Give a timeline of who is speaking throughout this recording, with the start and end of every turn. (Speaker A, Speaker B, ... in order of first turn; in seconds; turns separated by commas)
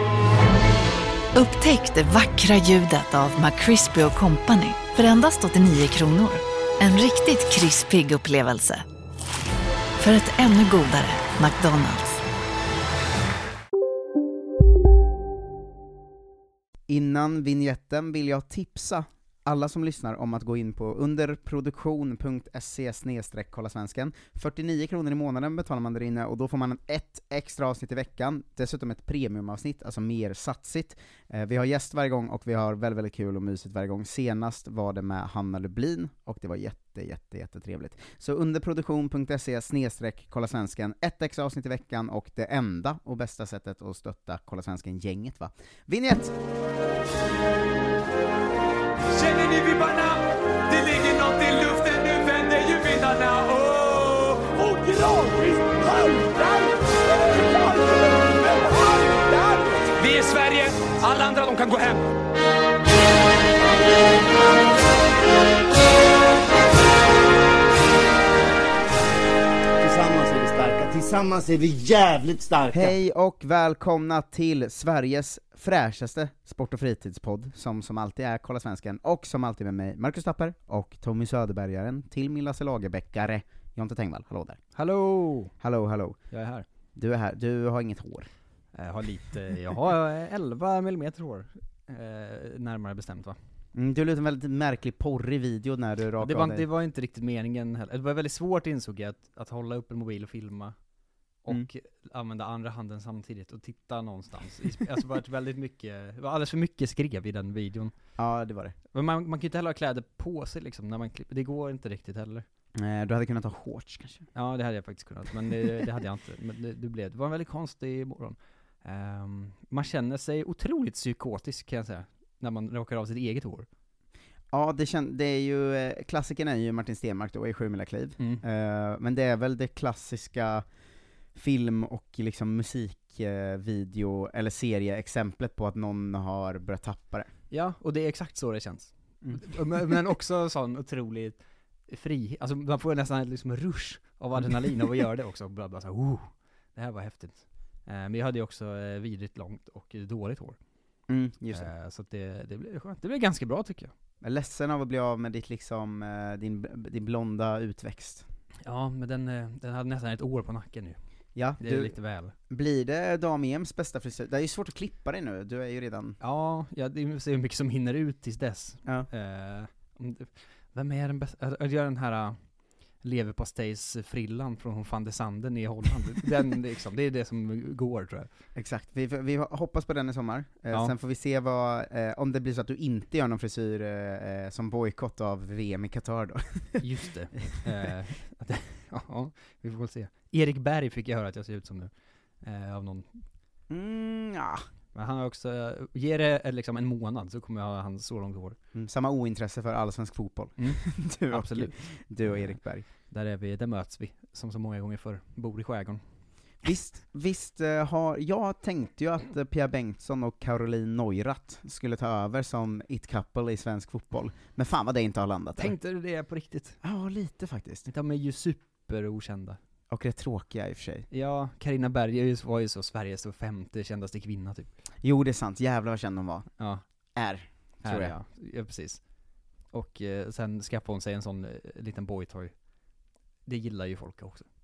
Speaker A: 1.3-8.8, Speaker A: 10.0-12.2, Speaker B: 16.9-46.4, Speaker C: 49.2-50.1, Speaker C: 50.7-55.4, Speaker C: 56.0-56.4, Speaker C: 57.5-57.8, Speaker C: 58.5-60.1, Speaker D: 69.8-72.9, Speaker B: 72.7-84.6, Speaker E: 84.8-85.5, Speaker B: 85.6-86.2, Speaker E: 86.3-86.7, Speaker B: 86.9-88.3, Speaker E: 88.7-93.4, Speaker B: 93.7-96.7, Speaker E: 96.2-100.8, Speaker E: 101.4-108.0, Speaker B: 108.2-108.7, Speaker E: 108.9-112.4, Speaker B: 112.7-114.3, Speaker E: 114.3-123.7, Speaker B: 124.5-130.7, Speaker E: 128.2-128.4, Speaker B: 131.3-137.3, Speaker E: 137.5-150.6, Speaker B: 139.2-140.0, Speaker B: 151.1-151.7, Speaker E: 151.5-153.9, Speaker B: 154.2-158.3, Speaker E: 158.6-162.3, Speaker B: 161.3-162.0, Speaker B: 162.5-166.2, Speaker E: 166.2-178.3, Speaker B: 178.5-186.8, Speaker E: 180.7-180.9, Speaker E: 186.8-193.2, Speaker B: 187.4-187.8, Speaker B: 193.7-194.7, Speaker E: 194.9-198.6, Speaker B: 198.7-202.8, Speaker E: 200.6-206.0, Speaker B: 206.6-215.7, Speaker E: 215.6-216.8, Speaker B: 216.8-217.9, Speaker E: 217.9-219.6, Speaker B: 219.9-221.1, Speaker E: 221.1-224.7, Speaker B: 225.0-226.5, Speaker E: 226.6-226.8, Speaker B: 227.2-228.2, Speaker E: 227.8-229.0, Speaker E: 229.7-232.5, Speaker E: 233.4-234.5